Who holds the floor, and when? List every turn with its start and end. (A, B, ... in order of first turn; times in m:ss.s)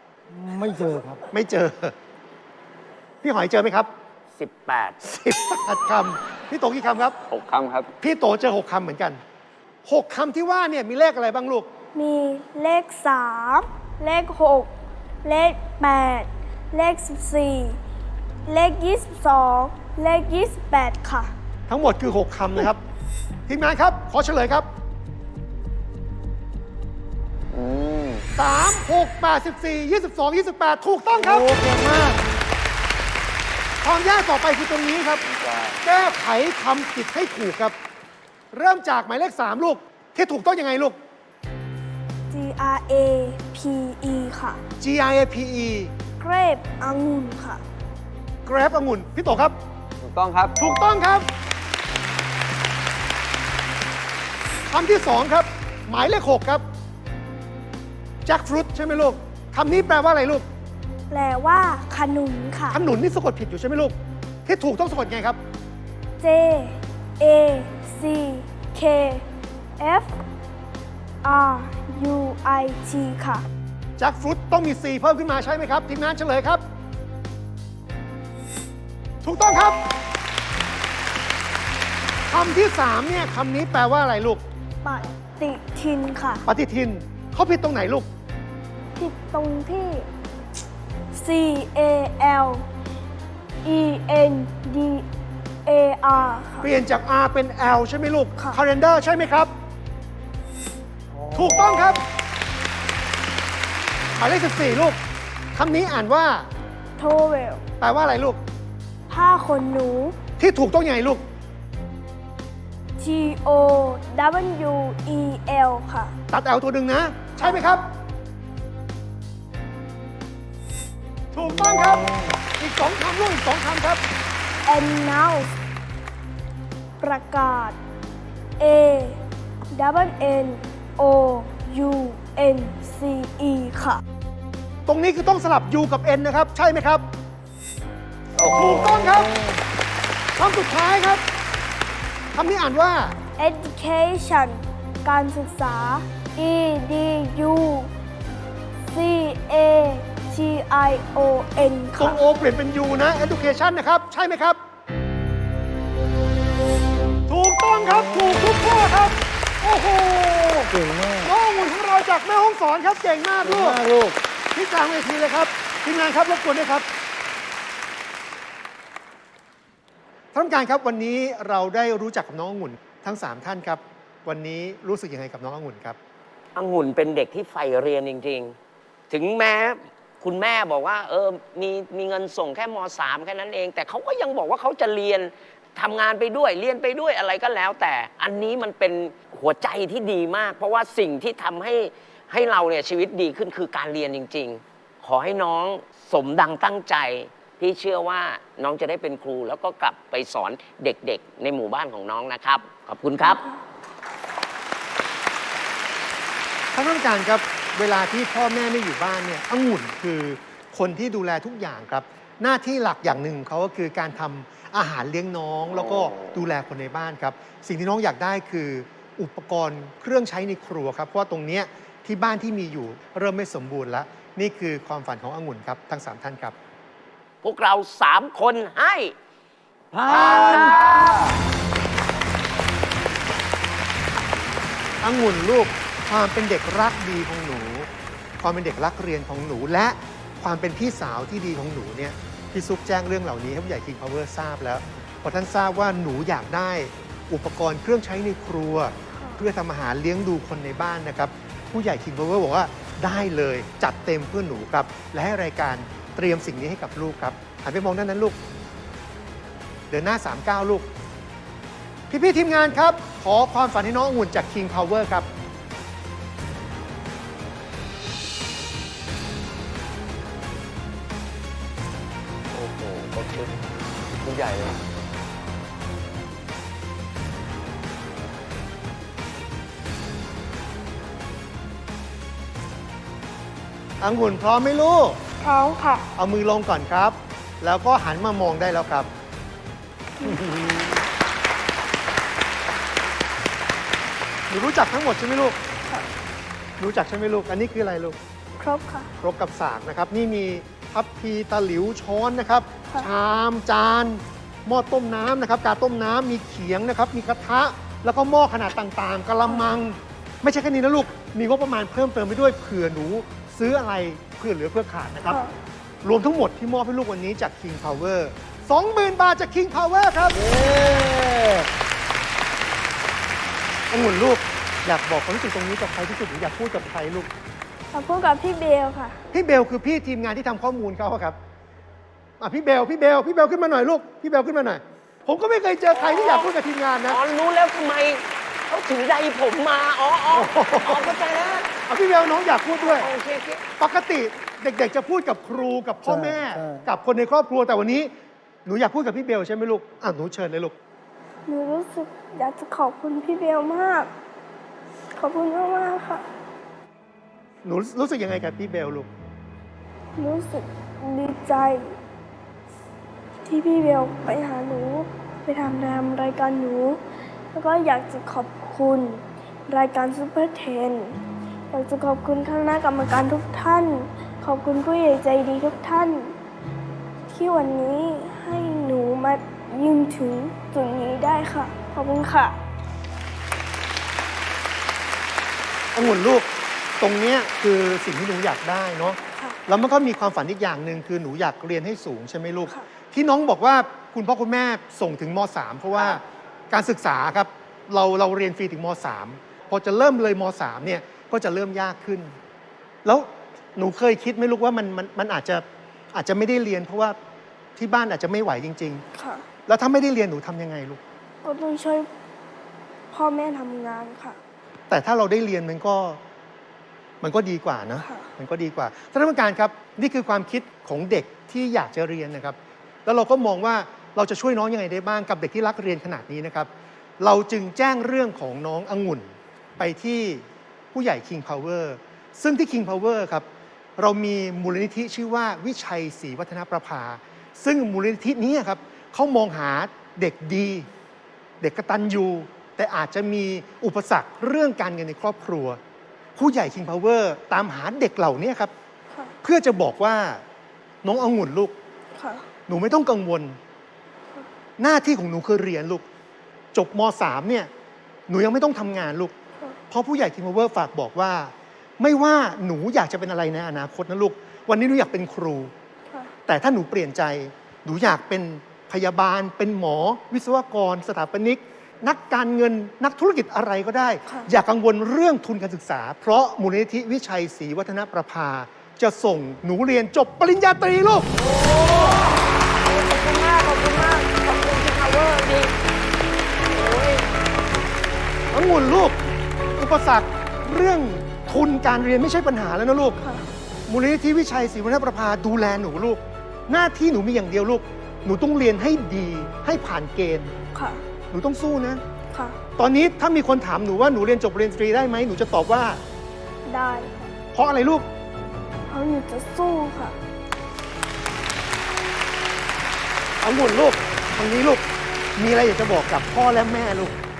0:00.3-0:01.2 A
0:01.3-0:01.9 B
0:03.2-0:03.9 B
0:04.4-0:05.0 C
0:05.0-0:07.2 B
0:07.3-0:07.9 D
0:08.0-0:09.2 B
0:09.8-0:11.7 B
0:11.9-0:14.7 E
0:15.2-0:17.8 E
0:18.5-0:21.3 E
0:21.7-0:22.8 B
0:23.5-0:24.7 B
0:27.5-0:28.3 D
0:28.4-0:32.2 B
0:31.2-0:31.6 A
0:33.8-0:35.2 B
0:35.2-0:35.8 D
0:35.8-0:37.7 B
0:38.5-0:41.0 B
0:42.3-0:44.6 E
0:44.8-0:45.9 B
0:46.2-0:47.6 E
0:48.4-0:49.6 B
0:50.0-0:50.6 D
0:50.6-0:51.3 B
0:54.7-0:56.6 B
0:58.2-1:00.4 B
1:01.1-1:02.8 E
1:02.7-1:05.4 B
1:06.2-1:09.2 E
1:09.8-1:10.2 E
1:11.2-1:13.4 E
1:14.0-1:16.6 B
1:19.2-1:19.8 B
1:22.3-1:24.4 B
1:24.8-1:26.4 E
1:26.4-1:28.1 B
1:29.0-1:30.1 E
1:31.1-1:32.6 E
1:33.6-1:35.0 E
1:35.6-1:36.7 E
1:36.6-1:39.5 B
1:41.1-1:42.0 A
1:41.3-1:42.1 B
1:44.2-1:45.0 B
1:45.5-1:46.5 B
1:47.0-1:47.6 E
1:47.8-1:48.4 B
1:49.1-1:50.2 E
1:50.4-1:51.2 B
1:53.0-1:56.1 E
1:56.3-1:57.8 B
1:57.4-1:57.7 E
2:01.3-2:04.0 B
2:01.6-2:02.3 A
2:04.6-2:05.5 E
2:07.0-2:07.8 E
2:08.6-2:09.2 E
2:09.7-2:14.0 E
2:14.9-2:17.0 B
2:18.4-2:19.5 A
2:18.4-2:19.3 B
2:20.4-2:21.2 B
2:22.3-2:23.2 B
2:23.4-2:27.9 E
2:28.8-2:32.2 E
2:32.0-2:34.6 B
2:37.3-2:40.7 B
2:40.7-2:41.3 A
2:41.2-2:43.8 B
2:43.4-2:44.2 A
2:44.5-2:46.8 B
2:50.3-2:56.0 B
2:56.6-2:58.6 C
2:59.1-3:23.4 C
3:23.2-3:23.6 E
3:26.7-3:46.5 B
3:35.8-3:36.4 D
3:47.4-3:49.1 C
3:49.9-3:51.0 A
3:50.1-3:51.2 C
3:50.1-3:50.8 B
3:55.0-4:18.4 B
4:09.1-4:09.4 E
4:19.9-4:20.9 B
4:22.1-4:25.3 B
4:32.5-4:33.5 C
4:34.2-4:34.8 D
4:44.0-4:45.2 B
4:45.4-4:46.1 E
4:46.2-4:49.1 B
4:50.2-4:50.6 E
4:50.2-4:50.9 A
4:54.5-4:55.6 B
4:56.8-4:58.2 B
4:58.6-4:59.1 E
4:59.2-5:15.4 B
5:15.2-5:15.5 E
5:16.0-5:20.4 B
5:20.3-5:21.7 A
5:23.9-5:27.3 B
5:27.9-5:29.2 E
5:29.3-5:31.4 B
5:32.4-5:37.2 B
5:35.9-5:36.5 C
5:37.1-5:41.7 C
5:40.3-5:41.1 B
5:41.8-5:43.1 B
5:42.8-5:43.6 C
5:43.8-5:48.1 B
5:46.0-5:46.8 A
5:48.6-5:50.7 B
5:51.5-5:54.1 E
5:55.1-5:56.3 E
5:57.6-5:59.1 B
6:00.2-6:01.9 E
6:03.4-6:07.0 E
6:07.5-6:11.2 E
6:11.7-6:16.4 E
6:17.3-6:22.6 E
6:25.9-6:42.3 B
6:43.0-6:47.2 B
6:47.8-6:49.0 B
6:49.1-6:49.4 E
6:49.7-6:51.0 B
6:51.4-6:52.1 E
6:53.1-6:54.4 E
6:54.9-6:56.2 B
6:57.2-7:13.4 B
6:58.0-6:58.3 E
7:14.0-7:20.9 B
7:21.6-7:25.8 B
7:26.4-7:28.7 B
7:29.4-7:30.4 B
7:31.0-7:31.7 B
7:32.2-7:32.4 E
7:32.7-7:33.6 B
7:34.8-7:36.0 B
7:36.7-7:37.7 B
7:38.3-7:39.3 B
7:39.9-7:45.7 B
7:46.4-8:01.3 B
8:01.4-8:05.7 C
8:06.7-8:07.2 C
8:08.5-8:09.2 B
8:09.8-8:13.2 B
8:13.2-8:13.4 E
8:13.9-8:20.5 B
8:20.7-8:21.0 E
8:21.3-8:22.0 B
8:22.3-8:22.6 E
8:22.8-8:26.0 B
8:26.7-8:27.3 E
8:27.5-8:28.1 B
8:28.9-8:30.2 E
8:33.4-8:34.8 B
8:35.4-8:37.2 B